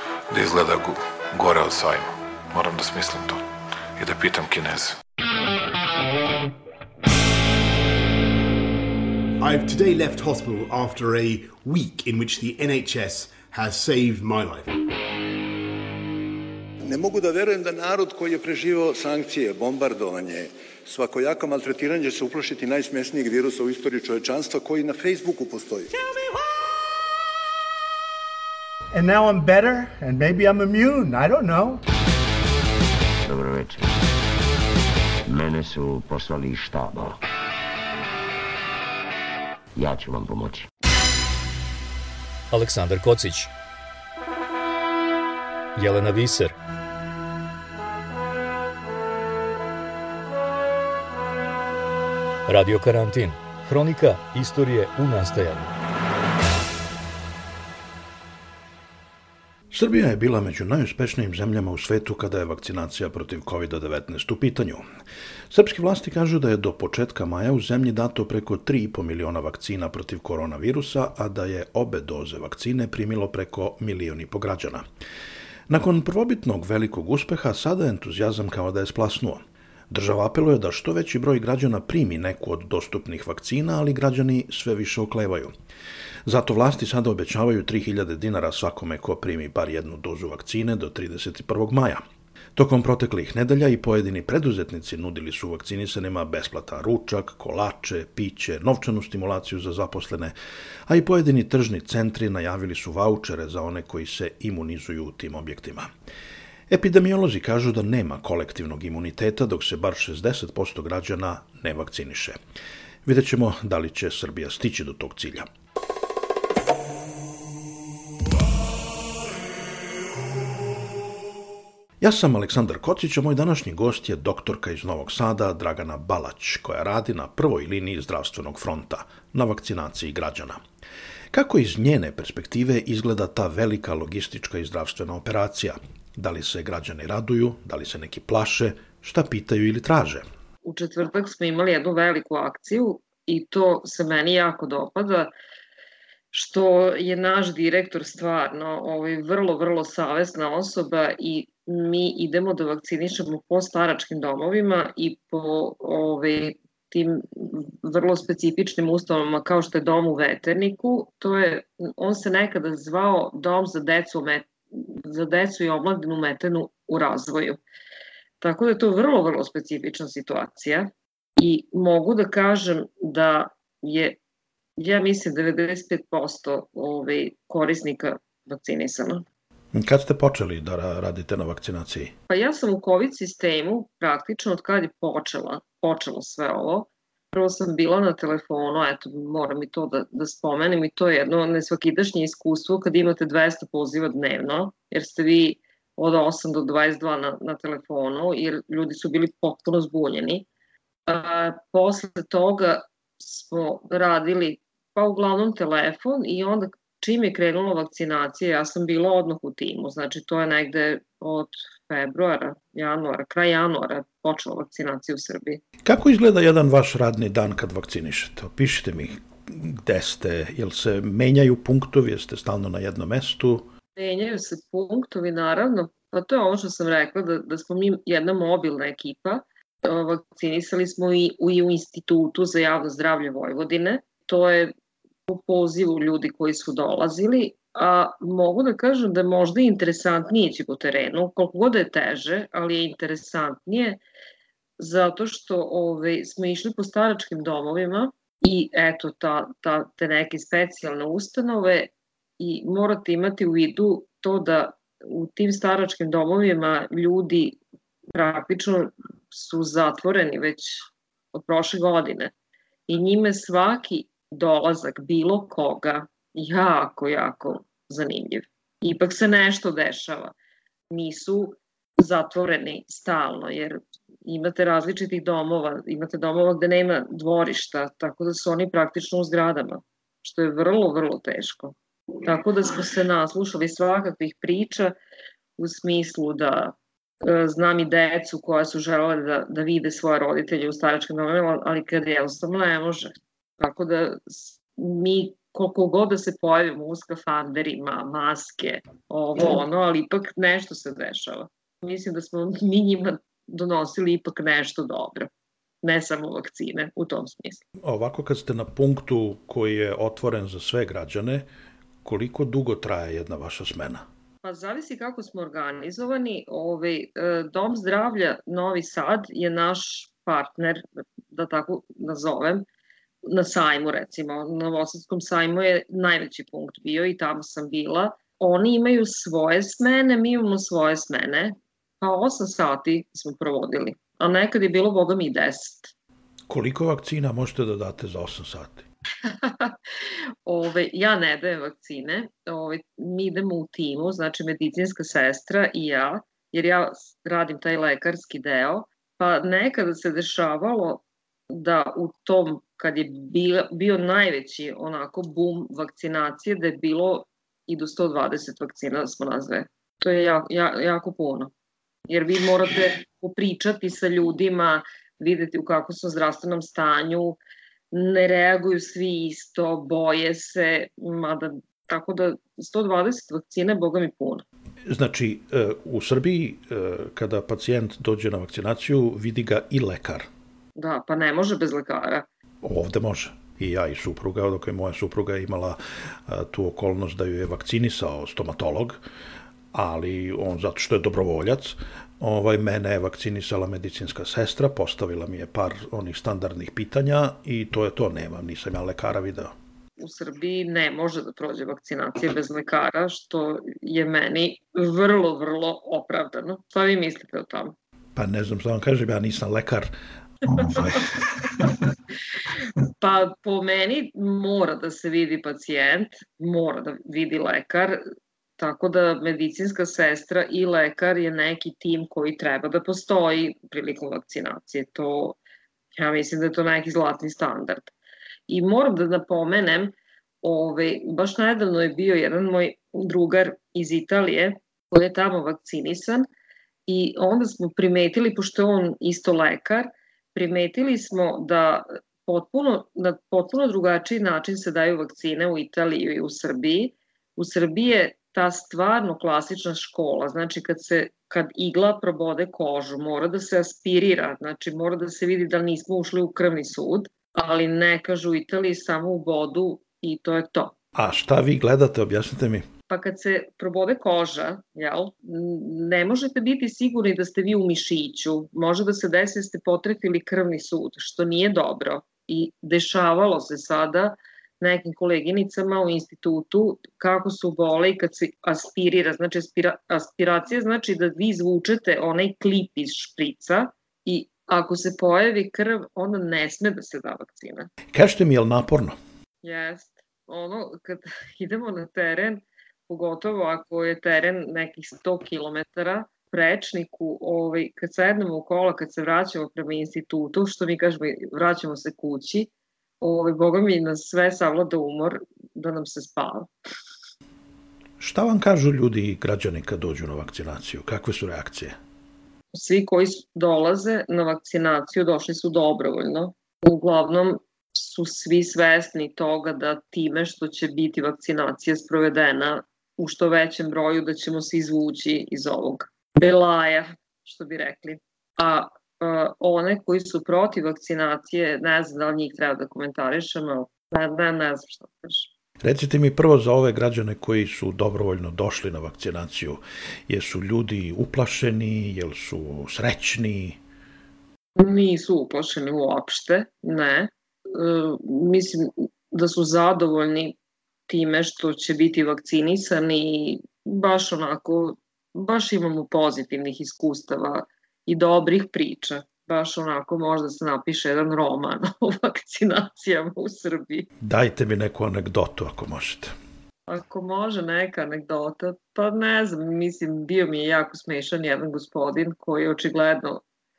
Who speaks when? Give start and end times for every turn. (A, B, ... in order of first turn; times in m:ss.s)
0:00.3-0:03.4 A
0:04.0-0:05.0 A
0:09.4-0:14.7 B
0:16.8-0:26.0 C
0:28.9-0:31.8 D
0:33.2-0:34.0 E
0:35.3-0:37.2 E
0:39.8-0:40.7 E
0:42.5-0:43.5 F
0:45.8-0:46.5 F
0:52.5-0:55.7 F
0:59.7-1:04.8 G
1:05.5-1:14.8 G
1:15.7-1:25.5 G
1:26.2-1:32.0 G
1:32.5-1:40.3 G
1:40.9-1:45.9 G
1:46.7-1:52.4 G
1:53.0-1:55.5 G
2:02.0-2:10.6 G
2:11.3-2:20.2 G
2:20.6-2:25.3 H
2:26.3-2:47.6 H
2:48.4-2:54.2 H
2:54.8-2:59.2 H
2:59.7-3:02.1 G
3:02.3-3:20.5 H
3:21.1-3:35.6 H
3:35.8-3:43.7 G
3:44.0-3:54.7 H
3:55.3-4:04.0 H
4:04.8-4:17.6 H
4:18.1-4:22.3 H
4:22.9-4:30.3 H
4:30.9-4:44.9 H
4:45.6-5:05.3 H
5:05.8-5:07.6 H
5:07.8-5:11.5 G
5:12.0-5:14.0 G
5:14.4-5:22.6 H
5:23.3-5:35.9 H
5:36.5-5:38.8 G
5:39.2-5:39.7 H
5:40.4-6:01.5 H
6:02.1-6:07.4 H
6:07.9-6:14.4 H
6:14.9-6:20.3 G
6:20.8-6:22.2 H
6:22.6-6:29.0 G
6:29.7-6:39.5 G
6:40.0-6:47.7 H
6:48.2-6:51.1 G
6:52.8-6:58.0 H
6:58.6-7:05.4 H
7:05.9-7:07.9 H
7:08.5-7:16.3 H
7:16.9-7:40.7 H
7:40.9-7:42.7 G
7:42.9-8:07.7 H
8:07.9-8:09.0 G
8:09.4-8:22.5 H
8:23.0-8:26.5 H
8:28.0-8:31.8 G
8:32.5-8:55.3 H
8:55.6-9:03.6 G
9:04.6-9:10.4 H
9:10.9-9:23.9 H
9:24.0-9:26.1 G
9:26.7-9:33.2 H